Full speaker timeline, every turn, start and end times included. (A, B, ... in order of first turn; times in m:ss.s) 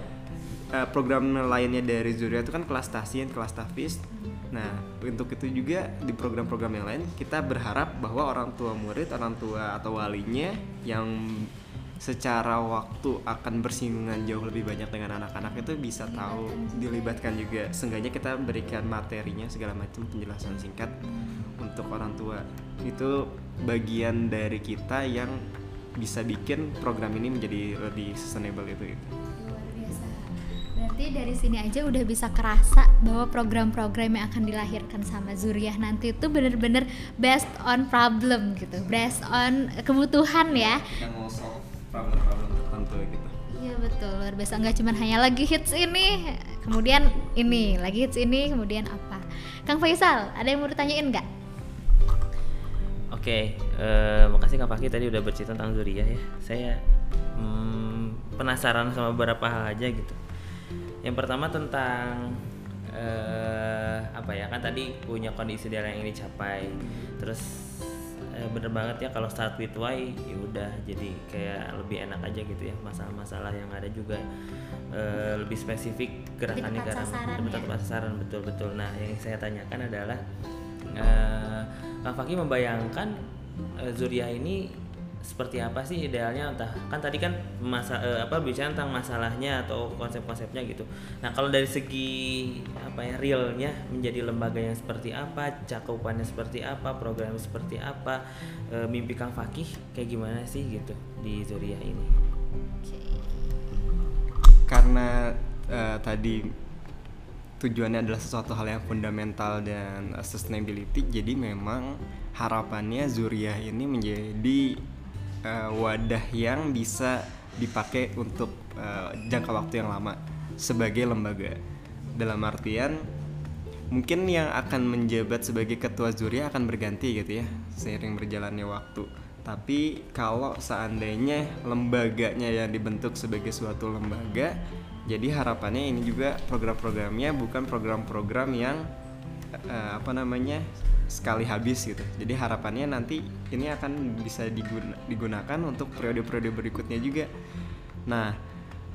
0:00.7-0:21.0 A
0:04.2-0:04.5 B
0:15.9-0:17.6 B
0:21.1-0:21.5 B
0:21.6-0:25.4 A
0:26.0-0:29.1 A
0:29.4-0:40.9 B
0:40.5-0:43.3 A
0:43.5-0:51.2 B
0:53.1-0:56.8 C
0:57.4-1:00.2 C
1:01.0-1:14.2 C
1:14.9-1:20.2 C
1:16.5-1:17.7 B
1:20.9-1:23.2 C
1:23.8-1:42.1 C
1:42.8-1:43.8 B
1:44.7-1:46.6 A
1:47.6-1:54.8 A
1:55.4-2:01.6 A
2:02.2-2:03.0 A
2:03.9-2:14.6 A
2:15.1-2:18.8 A
2:19.5-2:27.3 A
2:28.1-2:28.4 A